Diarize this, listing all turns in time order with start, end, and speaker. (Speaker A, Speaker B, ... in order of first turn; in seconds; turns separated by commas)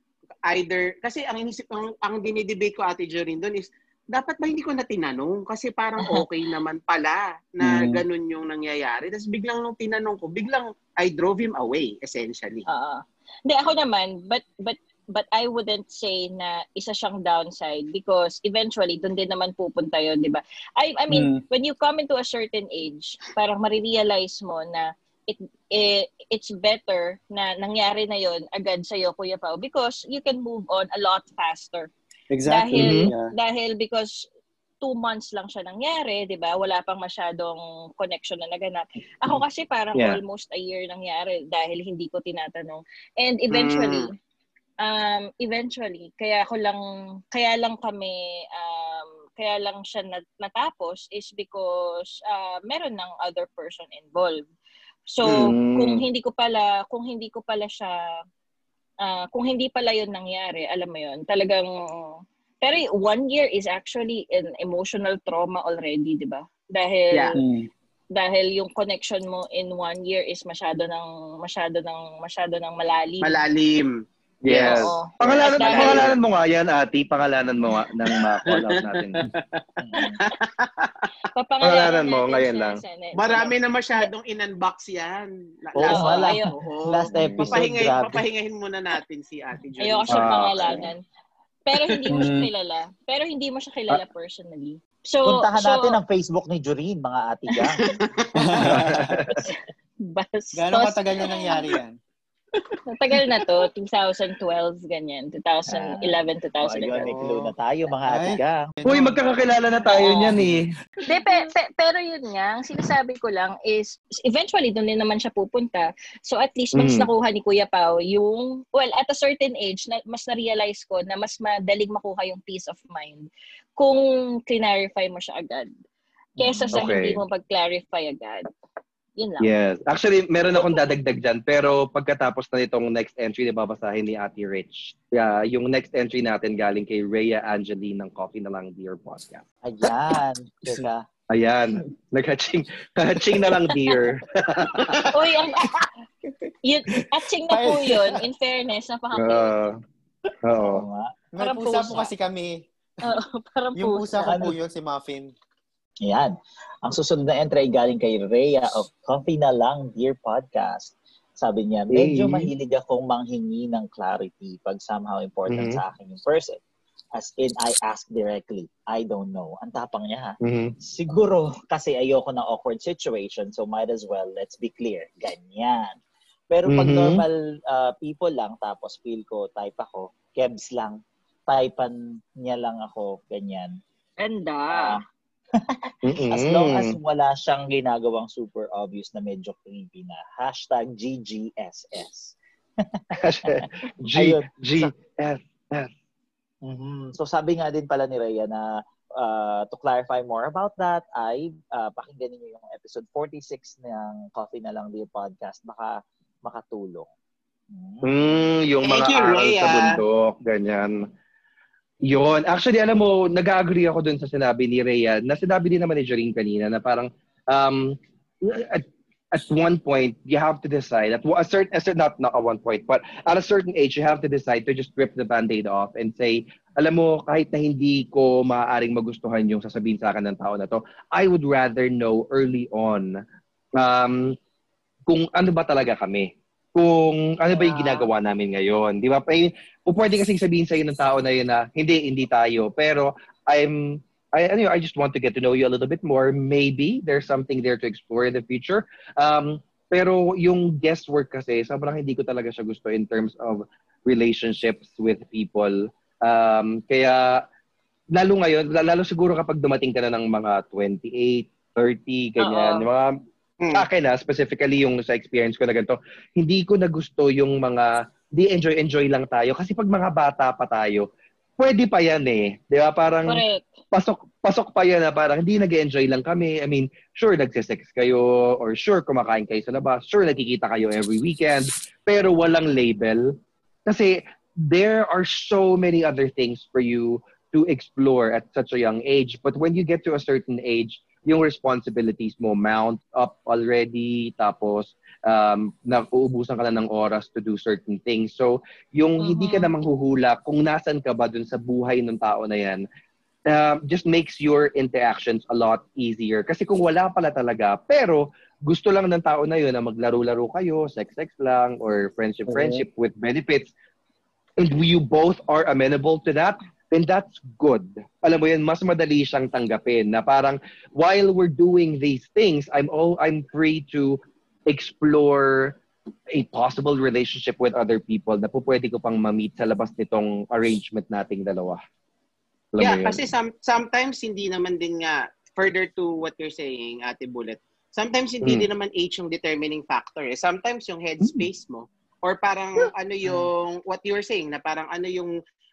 Speaker A: 0.5-12.7, Speaker B: 7.6-8.0, Speaker C: 12.7-31.9, Speaker B: 21.1-21.4, Speaker B: 32.3-33.3, Speaker C: 32.5-34.3, Speaker D: 32.8-33.1, Speaker C: 34.8-44.1, Speaker D: 39.9-40.2, Speaker A: 43.5-44.1, Speaker C: 44.8-46.8, Speaker C: 47.3-54.5, Speaker C: 55.1-58.0, Speaker D: 55.2-56.0, Speaker C: 59.0-67.4, Speaker B: 67.4-67.7, Speaker C: 68.1-73.4, Speaker A: 73.2-74.0, Speaker D: 74.4-79.3, Speaker A: 74.5-76.2, Speaker C: 74.6-76.1, Speaker A: 78.1-81.1, Speaker E: 79.8-80.2, Speaker C: 81.3-84.1, Speaker D: 81.6-82.8, Speaker A: 83.2-90.9, Speaker E: 85.8-88.2, Speaker C: 85.9-86.5, Speaker D: 87.1-87.6, Speaker C: 89.8-91.0, Speaker D: 90.1-90.8, Speaker C: 91.7-96.0, Speaker B: 92.1-92.5, Speaker E: 95.2-97.9, Speaker A: 97.6-98.6, Speaker B: 98.4-99.3, Speaker D: 98.7-99.5, Speaker C: 99.3-101.7, Speaker B: 100.5-102.0, Speaker C: 102.9-107.1, Speaker E: 105.7-108.7, Speaker B: 107.0-107.5, Speaker B: 108.1-109.2, Speaker D: 108.8-110.7, Speaker C: 109.9-110.4, Speaker B: 110.3-111.4, Speaker C: 111.1-125.7, Speaker D: 116.7-117.1, Speaker C: 126.4-128.4, Speaker E: 126.4-126.8, Speaker D: 126.7-127.2, Speaker C: 129.2-129.5, Speaker D: 129.4-139.4, Speaker E: 139.6-141.0, Speaker D: 141.3-144.9, Speaker B: 143.2-143.9, Speaker C: 145.1-145.8, Speaker B: 145.6-146.3, Speaker C: 146.6-149.5, Speaker B: 147.0-148.2, Speaker D: 149.1-149.8, Speaker D: 150.4-150.8, Speaker E: 150.6-151.1, Speaker B: 151.3-152.6, Speaker C: 151.4-152.1, Speaker C: 153.0-154.5, Speaker B: 153.8-155.3, Speaker E: 154.2-154.6, Speaker E: 156.0-156.3, Speaker E: 156.8-166.6, Speaker D: 161.9-162.5, Speaker D: 165.5-165.8, Speaker E: 167.2-175.9, Speaker D: 170.4-170.7, Speaker E: 176.5-183.8, Speaker D: 176.7-177.2, Speaker C: 184.2-185.0, Speaker E: 184.7-185.0, Speaker E: 185.6-194.9, Speaker D: 186.0-187.0, Speaker D: 193.2-195.9, Speaker E: 196.7-207.1, Speaker E: 207.7-208.4, Speaker D: 208.0-210.9, Speaker A: 208.8-210.0, Speaker D: 212.1-233.1, Speaker D: 233.8-234.4, Speaker D: 235.1-257.3, Speaker C: 237.5-238.1, Speaker D: 258.1-263.1, Speaker C: 262.4-262.9, Speaker A: 263.6-263.9, Speaker D: 263.8-271.1, Speaker D: 271.6-283.2, Speaker C: 273.2-273.6, Speaker D: 283.9-284.1, Speaker D: 284.7-302.8, Speaker C: 299.2-299.7, Speaker D: 303.5-313.7, Speaker B: 312.5-312.8, Speaker D: 314.6-325.8, Speaker D: 326.4-331.8, Speaker D: 332.7-333.2, Speaker A: 332.8-345.4, Speaker D: 338.4-338.7